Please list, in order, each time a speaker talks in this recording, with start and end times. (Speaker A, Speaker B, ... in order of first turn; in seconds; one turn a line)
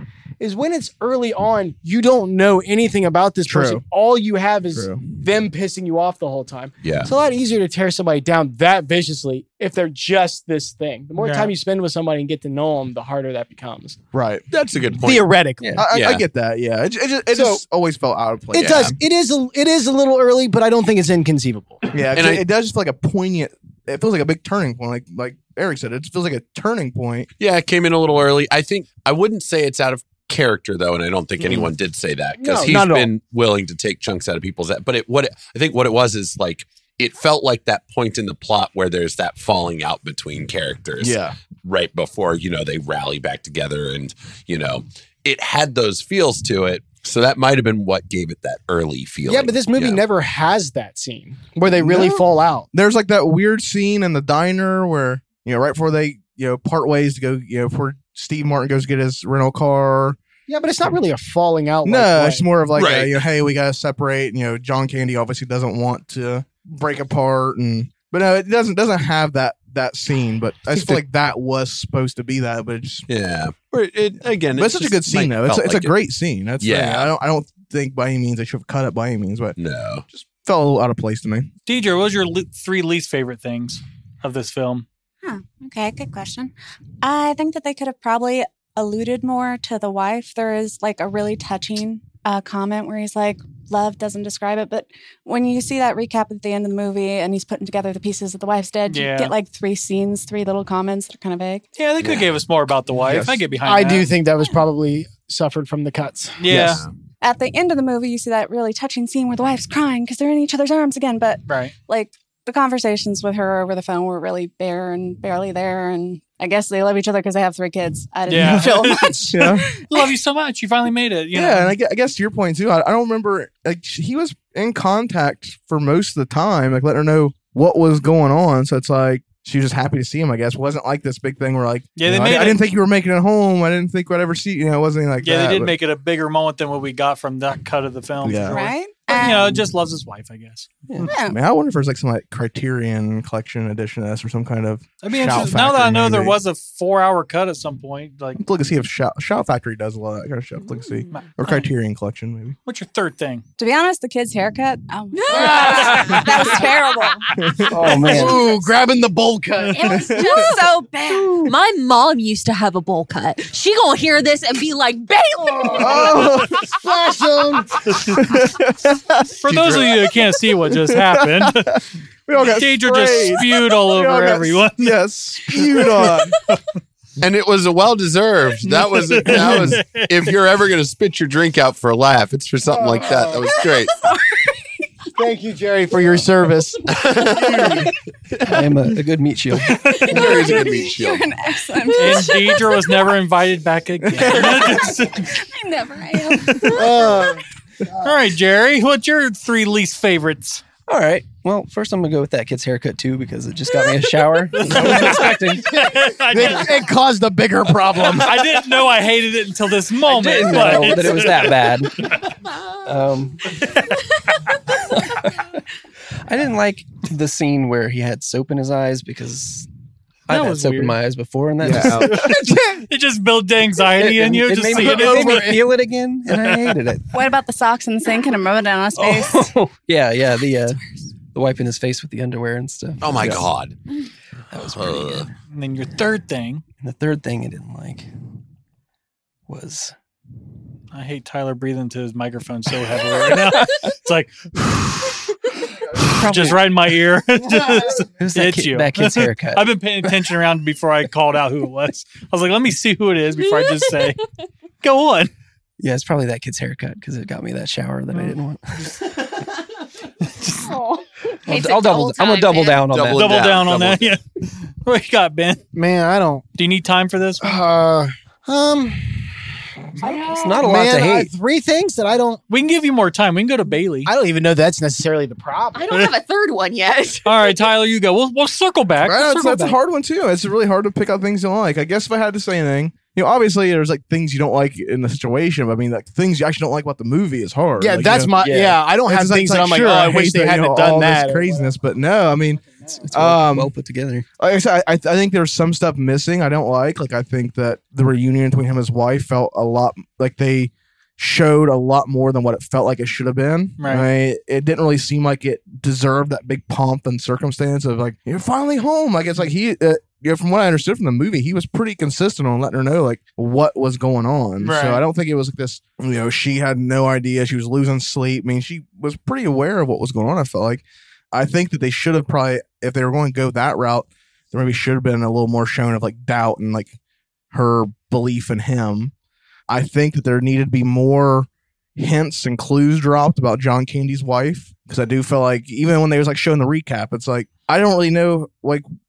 Speaker A: 0.4-14.0
Speaker B: 3.5-3.8
Speaker B: 4.7-5.0
Speaker C: 6.8-7.1
Speaker D: 11.2-11.5
Speaker B: 14.1-14.4
Speaker C: 14.5-15.3
Speaker A: 15.0-15.8
Speaker E: 15.6-15.9
Speaker B: 15.8-19.0
Speaker C: 15.9-16.2
Speaker A: 17.3-17.6
Speaker A: 18.5-21.8
Speaker B: 21.9-27.3
Speaker C: 22.1-22.4
Speaker C: 27.4-50.0
Speaker A: 32.4-33.1
Speaker B: 32.6-33.1
Speaker B: 41.0-41.4
Speaker A: 49.3-52.7
Speaker B: 51.8-60.2
Speaker A: 60.5-62.5
Speaker B: 61.9-73.1
Speaker C: 62.8-63.2
Speaker C: 70.7-71.0
Speaker C: 73.1-76.0
Speaker B: 74.5-79.6
Speaker C: 76.6-77.1
Speaker C: 79.6-80.0
Speaker B: 80.1-81.5
Speaker D: 81.7-84.9
Speaker F: 85.2-101.6
Speaker D: 98.9-99.3
Speaker D: 101.8-104.1
Speaker B: 103.0-103.4
Speaker A: 103.7-106.5
Speaker D: 106.4-106.8
Speaker B: 106.5-106.8
Speaker C: 106.5-106.9
Speaker F: 107.2-120.1
Speaker D: 111.5-111.7
Speaker D: 118.3-121.8
Speaker B: 118.4-118.7
Speaker B: 119.3-119.7
Speaker B: 121.3-135.8
Speaker D: 132.0-132.6
Speaker D: 135.2-141.1
Speaker B: 138.2-138.7
Speaker F: 138.4-139.6
Speaker F: 141.1-141.4
Speaker B: 141.2-146.4
Speaker D: 145.0-148.4
Speaker B: 148.4-152.6
Speaker D: 152.7-153.4
Speaker F: 153.6-157.3
Speaker G: 155.1-157.2
Speaker A: 155.3-156.2
Speaker B: 157.3-157.7
Speaker E: 157.7-158.5
Speaker A: 158.0-159.9
Speaker F: 158.1-158.4
Speaker G: 159.8-160.6
Speaker F: 159.8-161.5
Speaker B: 159.9-160.5
Speaker G: 161.4-166.7
Speaker A: 165.6-167.8
Speaker B: 165.7-166.6
Speaker B: 168.1-169.8
Speaker D: 169.4-171.8
Speaker C: 169.5-169.9
Speaker B: 170.7-176.4
Speaker D: 172.4-176.6
Speaker C: 177.2-184.0
Speaker D: 178.6-180.4
Speaker A: 182.7-183.5
Speaker A: 185.1-186.9
Speaker C: 186.9-187.9
Speaker E: 188.5-190.2
Speaker C: 190.1-191.3
Speaker F: 190.2-193.1
Speaker D: 191.9-195.4
Speaker B: 194.1-194.6
Speaker F: 194.6-197.2
Speaker D: 196.3-196.9
Speaker A: 196.7-197.4
Speaker D: 198.0-200.6
Speaker E: 200.9-205.9
Speaker D: 204.5-206.8
Speaker A: 206.3-208.4
Speaker D: 208.1-211.8
Speaker E: 210.0-212.1
Speaker E: 212.8-213.6
Speaker E: 214.9-215.5
Speaker E: 216.3-219.7
Speaker E: 220.3-222.3
Speaker D: 220.3-221.0
Speaker B: 221.6-222.4
Speaker D: 221.7-225.7
Speaker E: 223.9-227.3
Speaker A: 225.0-225.5
Speaker D: 226.3-226.8
Speaker F: 227.1-229.5
Speaker E: 228.9-230.8
Speaker E: 231.3-233.4
Speaker C: 233.0-233.8
Speaker E: 234.5-235.3
Speaker C: 234.6-235.3
Speaker D: 235.5-236.6
Speaker E: 236.8-238.1
Speaker E: 239.5-239.9
Speaker D: 240.9-254.2
Speaker E: 243.1-243.9
Speaker E: 246.0-246.7
Speaker E: 248.2-250.2
Speaker D: 254.8-255.3
Speaker E: 255.8-259.3
Speaker F: 260.7-261.0
Speaker E: 261.5-263.4
Speaker G: 261.5-262.8
Speaker C: 262.9-264.1
Speaker D: 263.2-264.2
Speaker D: 264.9-265.6
Speaker A: 265.7-266.4
Speaker D: 266.6-267.6
Speaker A: 267.4-269.4
Speaker A: 270.0-272.4
Speaker E: 270.2-271.3
Speaker D: 272.5-274.1
Speaker A: 274.1-275.9
Speaker G: 275.7-277.7
Speaker D: 277.2-279.8
Speaker B: 279.0-293.8
Speaker A: 287.8-291.7
Speaker E: 288.4-288.8
Speaker E: 293.1-294.3
Speaker B: 294.4-327.0
Speaker D: 303.8-304.1
Speaker D: 314.6-315.0
Speaker B: 327.5-329.1
Speaker B: 329.7-338.9